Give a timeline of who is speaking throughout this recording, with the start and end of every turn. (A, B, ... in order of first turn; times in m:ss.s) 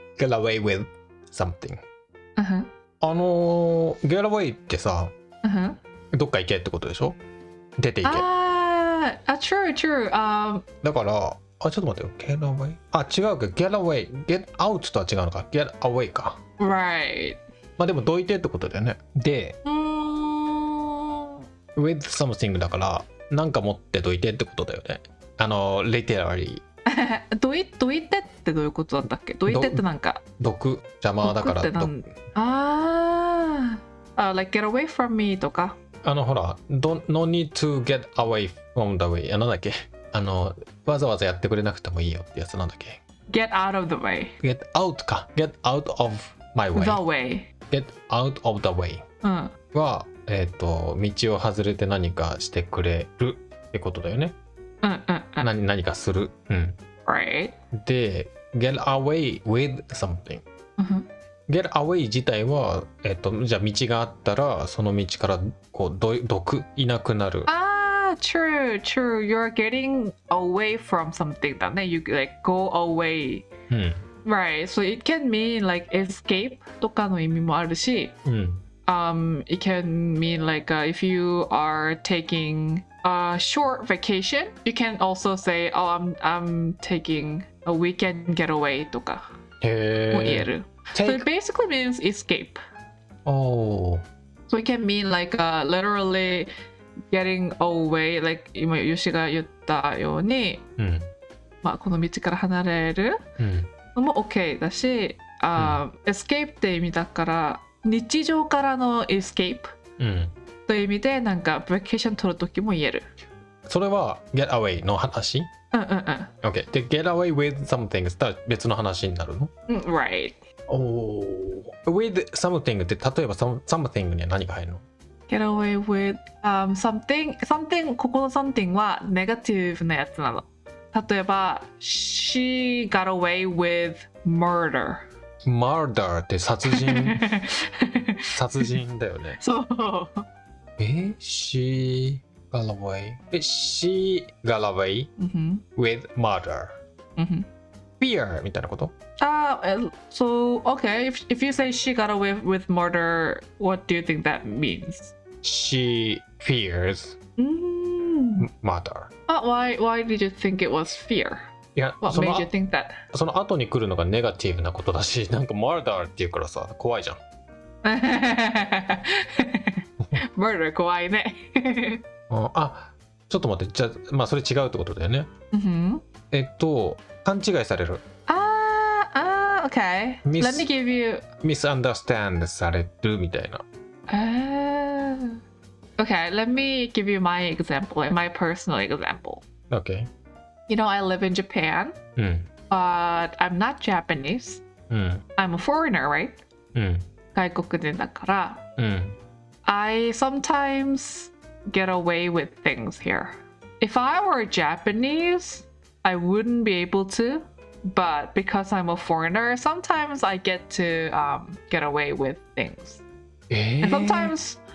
0:00.2-0:01.8 A
0:02.4-0:02.7 B
0:03.0-0:05.1 A
0:05.4-0:05.8 B
0:06.1-0:07.2 A
0:07.8-0:08.2 A
0:08.0-0:10.6 B
0:10.8-0:16.4 A
0:16.6-0:17.4 B
0:17.8-0:19.6 A
0:19.6-0:21.4 B
0:21.7-0:26.6 A
0:26.9-0:30.2 B
0:29.5-0:29.8 A
0:30.4-0:32.0 A
0:31.2-0:35.8 B
0:36.0-0:43.0 A
0:43.3-0:44.3 B
0:44.4-0:47.0 A
0:46.7-0:47.5 B
0:47.7-0:49.0 A
0:49.2-0:49.6 B
0:49.7-0:54.4 A
0:54.8-0:55.5 B
0:55.4-0:56.8 A
0:57.0-0:57.6 B
0:57.7-1:00.4 A
1:00.8-1:01.1 B
1:01.5-1:07.5 A
1:07.5-1:13.5 B
1:13.7-1:14.1 A
1:14.2-1:18.1 B
1:18.2-1:18.6 A
1:18.9-1:29.2 B
1:29.6-1:31.3 A
1:30.1-1:32.6 B
1:33.2-1:34.0 A
1:34.5-1:36.5 B
1:37.1-1:40.6 B
1:40.8-1:41.1 A
1:41.6-1:43.2 B
1:43.4-1:43.7 A
1:43.9-1:49.7 B
1:45.6-1:45.8 A
1:50.0-1:50.3 A
1:50.7-1:53.0 B
1:53.6-1:55.5 A
1:55.7-1:56.3 B
1:56.4-1:59.5 A
1:59.7-2:00.4 B
2:00.7-2:04.8 A
2:05.3-2:15.0 B
2:15.4-2:17.3 A
2:16.7-2:18.8 B
2:18.3-2:19.4 A
2:19.4-2:20.2 B
2:20.8-2:25.1 A
2:25.2-2:25.6 B
2:25.8-2:26.8 A
2:27.2-2:27.5 B
2:28.0-2:28.9 A
2:29.2-2:35.1 B
2:35.4-2:37.2 A
2:37.4-2:38.5 B
2:38.4-2:39.1 A
2:39.3-2:41.4 B
2:41.7-2:42.5 A
2:42.0-2:43.0 B
2:43.1-2:47.2 A
2:47.8-2:52.0 B
2:52.3-2:55.3 A
2:55.5-2:56.0 B
2:56.3-2:58.0 A
2:58.3-3:01.3 B
3:00.2-3:00.7 A
3:01.4-3:03.6 A
3:04.1-3:05.4 B
3:06.0-3:09.4 B
3:09.7-3:10.1 A
3:10.7-3:12.0 B
3:12.2-3:12.5 A
3:12.7-3:14.6 B
3:14.9-3:15.2 A
3:15.4-3:16.4 B
3:16.7-3:17.0 A
3:17.3-3:18.6 B
3:18.8-3:19.2 A
3:19.6-3:33.0 B
3:33.5-3:34.3 A
3:33.8-3:34.6 B